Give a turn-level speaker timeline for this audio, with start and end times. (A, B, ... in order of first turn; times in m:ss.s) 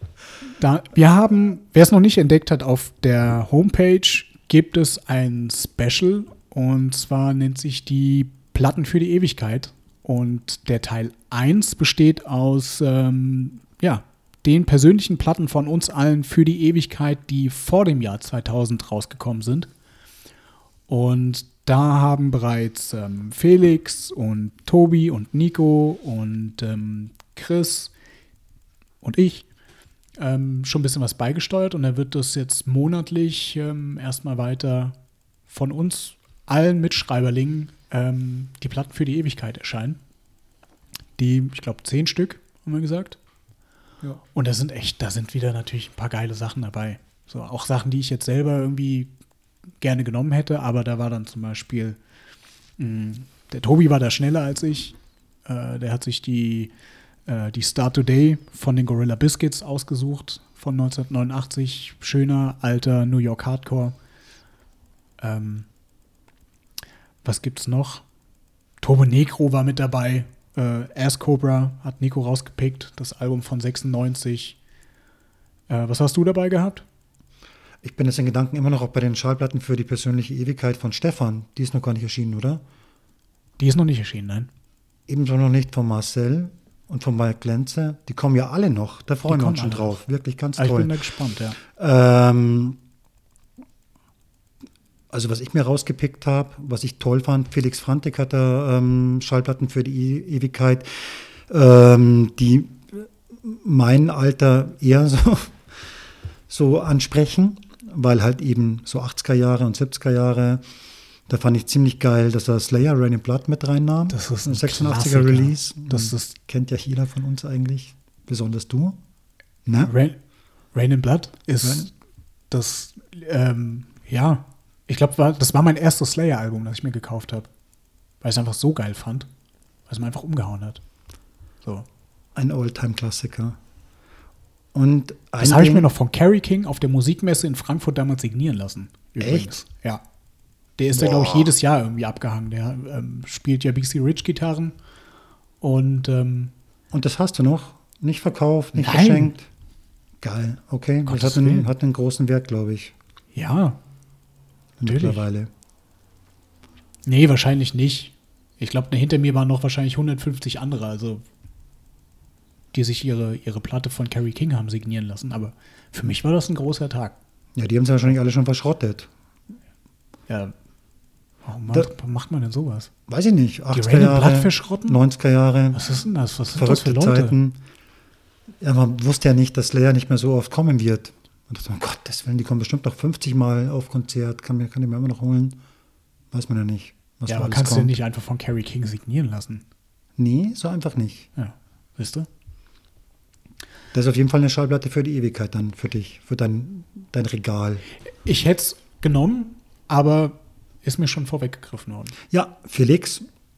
0:00.6-0:19.7 A
0:20.9-0:27.9 A
0:29.0-0:29.5 A
0:30.2-0:35.0 A
0:35.5-0:40.0 A
0:41.2-0:43.2 A
0:44.3-0:49.1 A
0:49.8-0:52.0 A
0:52.8-0:56.7 A
0:57.3-1:04.0 A
1:05.2-1:05.7 A
1:07.2-1:08.0 A
1:08.8-1:14.6 A
1:15.7-1:16.8 A
1:17.8-1:22.6 B
1:23.6-1:24.5 A
1:25.1-1:31.0 B
1:29.3-1:30.0 A
1:30.6-1:31.6 A
1:31.6-1:32.8 B
1:35.1-1:45.9 B
1:46.5-1:50.6 B
1:51.3-1:59.0 B
1:54.1-1:56.4 A
1:59.7-1:59.9 B
1:59.8-2:00.2 A
2:00.7-2:01.9 A
2:01.6-2:01.9 B
2:02.5-2:07.5 A
2:08.2-2:09.3 A
2:09.9-2:10.8 A
2:12.4-2:13.6 B
2:14.7-2:15.9 B
2:15.4-2:20.0 A
2:19.2-2:19.5 B
2:20.8-2:24.7 A
2:21.0-2:21.5 B
2:25.6-2:26.5 A
2:26.9-2:29.5 B
2:28.8-2:29.3 A
2:30.2-2:32.9 B
2:31.1-2:31.7 A
2:33.4-2:33.8 A
2:34.8-2:35.5 B
2:34.8-2:35.2 A
2:37.1-2:41.2 A
2:42.7-2:47.2 A
2:47.6-2:49.1 B
2:50.3-2:50.5 A
2:51.4-2:52.9 A
2:53.1-2:55.8 B
2:53.7-2:55.0 A
2:55.7-2:57.4 A
2:56.5-2:57.6 B
2:58.6-3:05.6 B
3:06.3-3:08.0 B
3:07.3-3:09.6 A
3:10.2-3:11.3 B
3:11.4-3:12.3 A
3:13.9-3:17.8 B
3:18.2-3:22.2 A
3:22.3-3:23.2 B